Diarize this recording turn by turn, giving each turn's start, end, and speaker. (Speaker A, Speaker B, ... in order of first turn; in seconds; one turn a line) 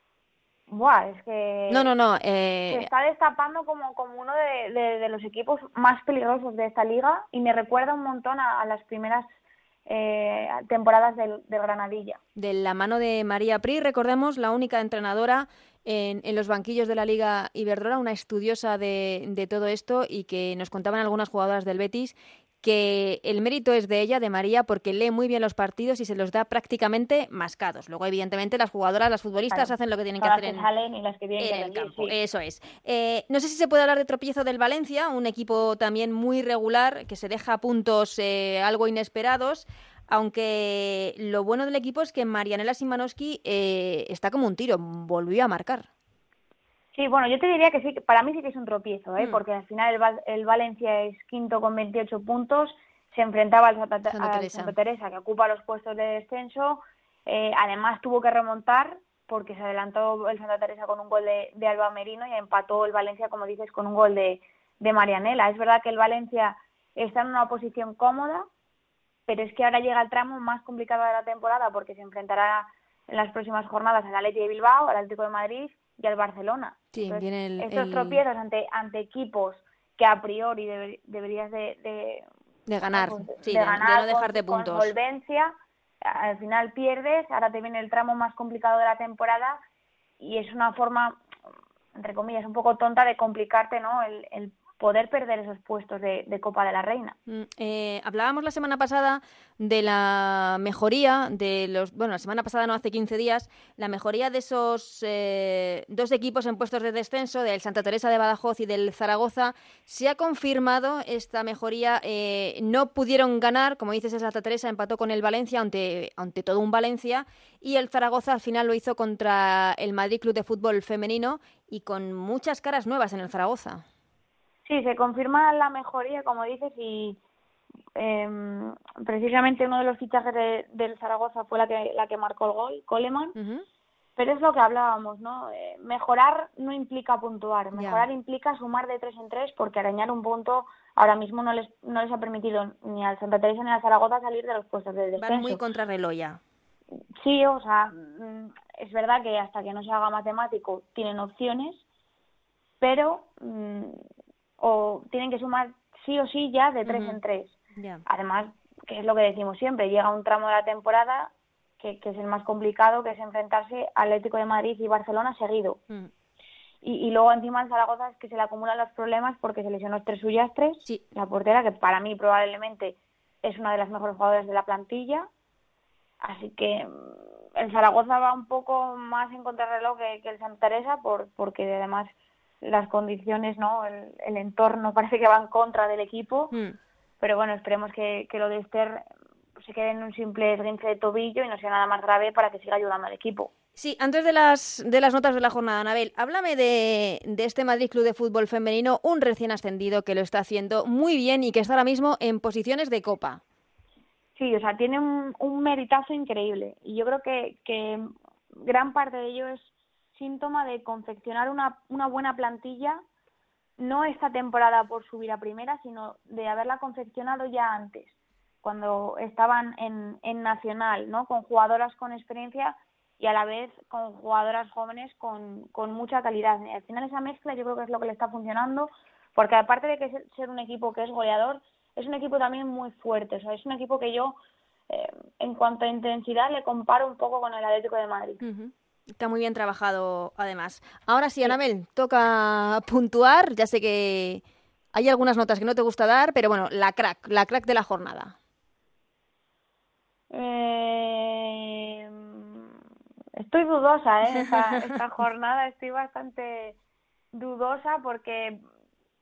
Speaker A: 0.7-1.9
Speaker B: 1.7-2.9
Speaker A: 2.7-9.3
Speaker A: 9.8-12.2
Speaker B: 12.3-30.7
Speaker A: 29.5-32.1
Speaker B: 31.4-45.9
Speaker A: 46.9-68.5
Speaker B: 54.1-54.7
Speaker A: 69.3-82.3
Speaker B: 76.9-78.2
Speaker B: 82.7-84.9
Speaker A: 82.9-89.6
Speaker A: 90.2-91.2
Speaker A: 92.0-97.2
Speaker B: 97.3-123.8
Speaker A: 124.7-127.2
Speaker A: 128.0-133.3
Speaker B: 133.3-133.6
Speaker A: 134.2-145.6
Speaker B: 137.7-138.1
Speaker B: 145.2-146.4
Speaker A: 147.2-151.8
Speaker A: 152.8-154.0
Speaker A: 154.6-165.8
Speaker B: 156.8-157.2
Speaker B: 157.8-158.0
Speaker A: 166.8-175.3
Speaker A: 176.2-186.5
Speaker A: 187.2-189.0
Speaker A: 189.6-193.5
Speaker B: 193.8-203.4
Speaker A: 204.3-213.0
Speaker A: 213.8-234.3
Speaker A: 234.9-238.4
Speaker B: 238.4-244.4
Speaker B: 244.9-248.3
Speaker A: 250.3-252.7
Speaker A: 253.4-256.8
Speaker A: 257.3-258.6